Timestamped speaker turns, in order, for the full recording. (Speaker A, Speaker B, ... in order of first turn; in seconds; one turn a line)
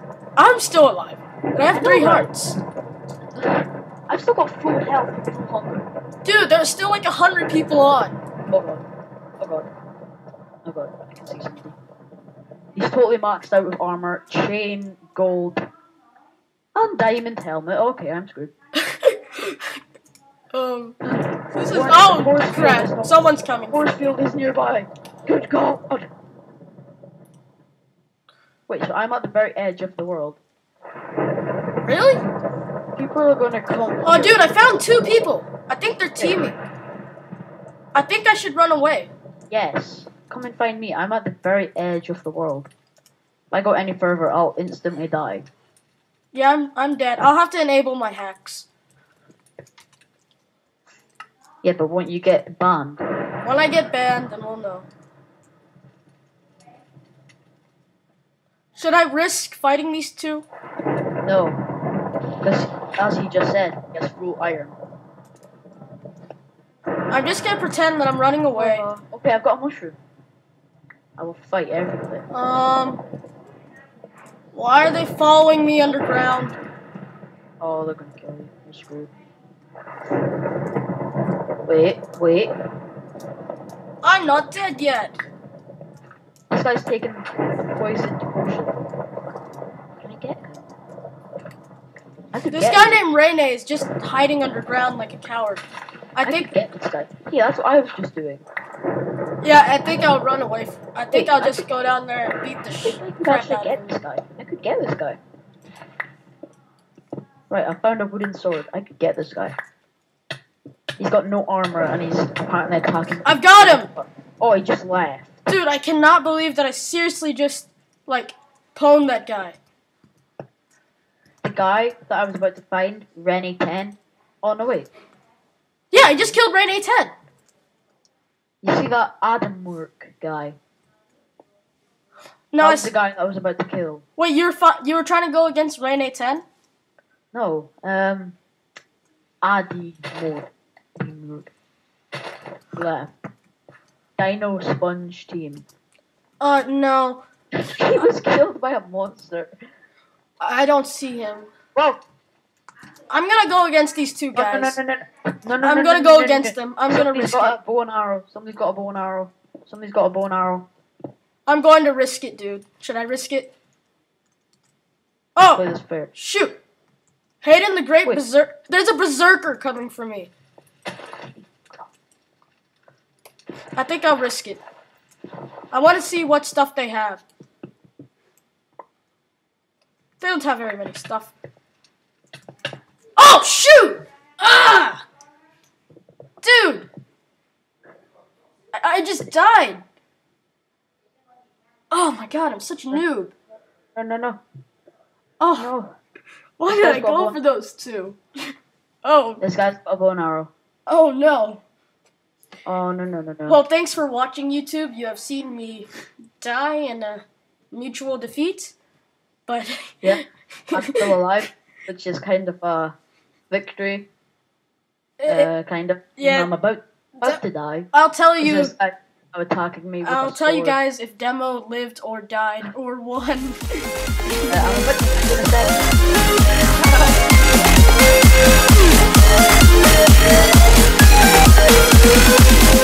Speaker A: 0.4-2.6
Speaker B: 1.7-2.3
Speaker B: 3.4-5.9
Speaker A: 6.2-8.2
Speaker B: 8.5-8.8
Speaker B: 9.4-9.7
Speaker B: 10.6-11.8
Speaker B: 12.7-15.6
Speaker B: 16.7-18.5
Speaker A: 18.8-19.8
Speaker A: 20.5-21.0
Speaker B: 21.1-23.1
Speaker A: 21.5-24.1
Speaker B: 23.7-26.1
Speaker B: 28.7-30.4
Speaker A: 31.9-32.2
Speaker B: 33.0-34.4
Speaker A: 34.0-36.6
Speaker B: 36.1-36.5
Speaker A: 37.9-39.1
Speaker B: 39.5-42.7
Speaker B: 43.5-45.5
Speaker A: 46.3-48.7
Speaker B: 51.6-53.0
Speaker A: 53.4-54.9
Speaker A: 58.7-60.5
Speaker B: 61.2-61.6
Speaker B: 62.4-64.8
Speaker A: 67.1-68.9
Speaker B: 68.5-70.0
Speaker B: 71.2-72.2
Speaker A: 72.3-73.0
Speaker A: 74.5-76.5
Speaker B: 77.6-79.1
Speaker B: 81.7-82.5
Speaker A: 84.0-85.2
Speaker B: 86.5-88.8
Speaker B: 90.0-90.6
Speaker B: 92.3-93.0
Speaker A: 92.5-95.6
Speaker A: 96.2-96.6
Speaker B: 96.2-98.4
Speaker A: 99.4-104.0
Speaker B: 101.1-101.7
Speaker B: 102.8-105.2
Speaker B: 107.5-109.5
Speaker B: 111.0-115.3
Speaker A: 113.2-113.9
Speaker A: 115.5-119.6
Speaker B: 121.4-124.9
Speaker A: 125.9-127.1
Speaker B: 125.9-126.4
Speaker B: 128.6-130.6
Speaker A: 132.5-132.9
Speaker B: 132.6-134.0
Speaker A: 134.2-136.4
Speaker B: 137.3-138.3
Speaker B: 139.4-141.5
Speaker B: 142.7-143.1
Speaker B: 144.2-145.7
Speaker A: 146.4-147.2
Speaker B: 147.6-149.5
Speaker A: 150.4-151.5
Speaker B: 151.7-152.0
Speaker A: 153.1-154.8
Speaker B: 154.3-160.7
Speaker A: 155.6-157.6
Speaker A: 161.4-163.5
Speaker A: 165.3-166.6
Speaker B: 165.4-166.1
Speaker A: 167.4-170.3
Speaker B: 171.6-171.9
Speaker A: 173.8-174.6
Speaker A: 175.7-177.2
Speaker A: 180.2-181.3
Speaker A: 183.2-185.0
Speaker A: 186.4-186.9
Speaker A: 188.7-189.8
Speaker A: 191.9-193.3
Speaker B: 193.9-194.4
Speaker A: 195.4-195.7
Speaker B: 195.5-195.9
Speaker A: 196.6-198.5
Speaker B: 196.7-197.4
Speaker A: 199.0-199.4
Speaker B: 199.4-200.5
Speaker A: 200.8-201.6
Speaker B: 202.7-203.6
Speaker A: 203.5-208.7
Speaker A: 209.5-211.2
Speaker B: 210.7-212.9
Speaker B: 213.5-214.1
Speaker A: 215.2-215.5
Speaker B: 215.3-220.8
Speaker A: 216.2-216.5
Speaker A: 217.9-218.7
Speaker A: 220.0-223.9
Speaker B: 224.5-227.2